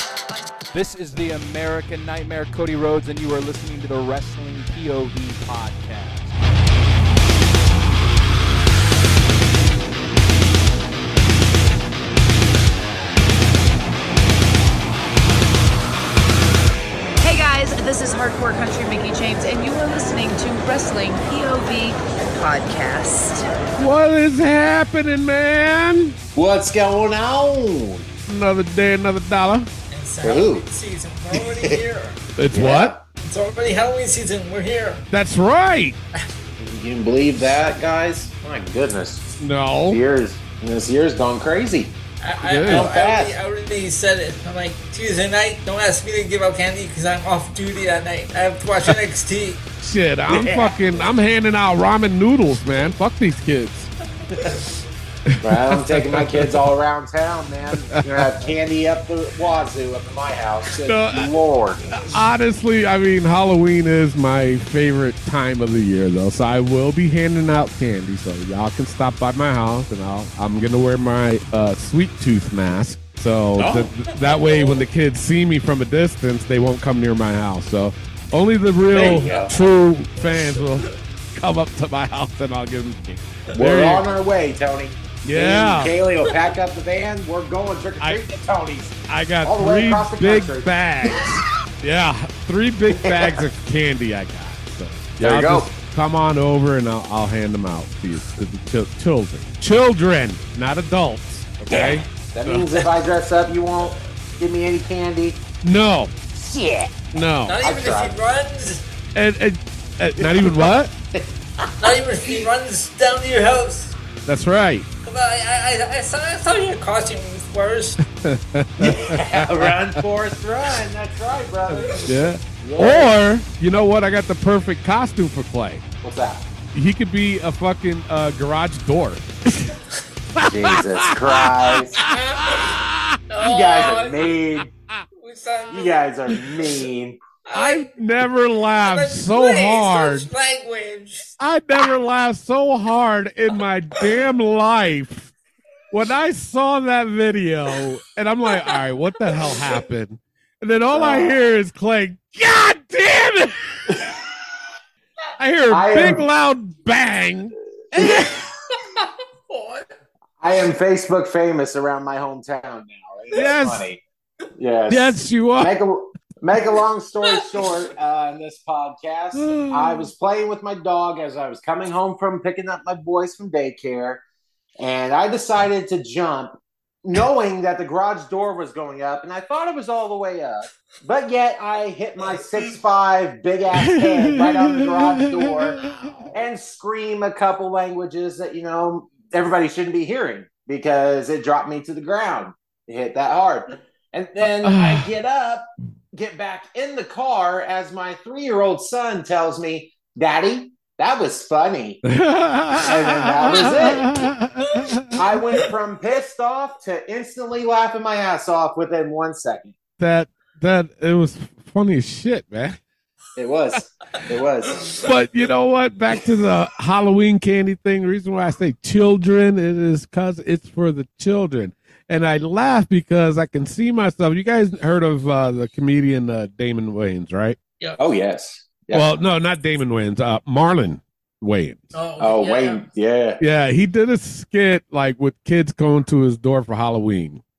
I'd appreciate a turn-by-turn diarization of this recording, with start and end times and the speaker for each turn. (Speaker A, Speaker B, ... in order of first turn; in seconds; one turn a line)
Speaker A: 0.7-6.4
Speaker B: 17.2-23.5
Speaker C: 23.8-26.2
Speaker D: 26.4-28.1
Speaker C: 28.2-29.7
Speaker E: 29.9-32.2
Speaker D: 30.2-30.7
Speaker D: 31.3-31.8
Speaker C: 32.4-32.9
Speaker D: 32.5-33.0
Speaker E: 33.2-35.1
Speaker C: 35.1-36.0
Speaker D: 36.6-39.4
Speaker C: 39.4-40.0
Speaker D: 39.9-42.0
Speaker E: 42.2-49.6
Speaker C: 42.4-42.9
Speaker D: 42.7-43.3
Speaker C: 49.8-53.9
Speaker D: 50.3-50.8
Speaker C: 55.3-56.6
Speaker D: 55.4-61.9
Speaker C: 57.9-58.2
Speaker C: 60.8-61.3
Speaker C: 62.0-84.0
Speaker D: 73.6-73.9
Speaker E: 74.1-74.8
Speaker D: 78.9-79.5
Speaker E: 79.0-79.5
Speaker D: 83.5-90.7
Speaker C: 85.2-86.0
Speaker C: 89.1-102.7
Speaker D: 93.0-93.5
Speaker D: 95.2-95.7
Speaker D: 101.7-105.4
Speaker C: 105.6-106.1
Speaker D: 106.4-106.9
Speaker C: 107.1-107.6
Speaker E: 107.5-108.8
Speaker D: 107.6-108.2
Speaker C: 109.2-110.9
Speaker D: 110.2-111.2
Speaker E: 111.8-114.0
Speaker C: 114.3-114.9
Speaker E: 115.0-118.0
Speaker C: 118.2-120.0
Speaker D: 118.8-123.1
Speaker C: 121.7-125.8
Speaker D: 126.0-126.4
Speaker C: 126.7-129.7
Speaker C: 130.4-133.2
Speaker D: 130.4-132.0
Speaker E: 132.0-134.2
Speaker D: 133.4-134.7
Speaker E: 135.2-136.1
Speaker D: 135.7-137.2
Speaker E: 137.5-138.0
Speaker C: 137.5-140.3
Speaker E: 138.8-141.3
Speaker C: 141.4-145.3
Speaker C: 145.9-153.9
Speaker D: 150.9-151.3
Speaker D: 153.9-154.2
Speaker C: 155.4-158.4
Speaker D: 155.7-156.2
Speaker E: 158.0-159.9
Speaker D: 160.4-164.0
Speaker C: 163.3-163.8
Speaker D: 164.6-174.2
Speaker C: 164.9-165.7
Speaker E: 167.3-167.6
Speaker C: 169.3-170.1
Speaker D: 174.8-185.8
Speaker C: 183.8-186.3
Speaker D: 186.3-202.0
Speaker C: 194.6-195.1
Speaker C: 202.1-205.2
Speaker D: 202.8-204.1
Speaker D: 205.1-209.8
Speaker C: 210.0-212.8
Speaker D: 213.4-214.9
Speaker C: 214.9-227.6
Speaker D: 228.0-229.2
Speaker C: 228.9-231.9
Speaker E: 231.9-232.8
Speaker D: 232.2-233.4
Speaker C: 233.4-237.4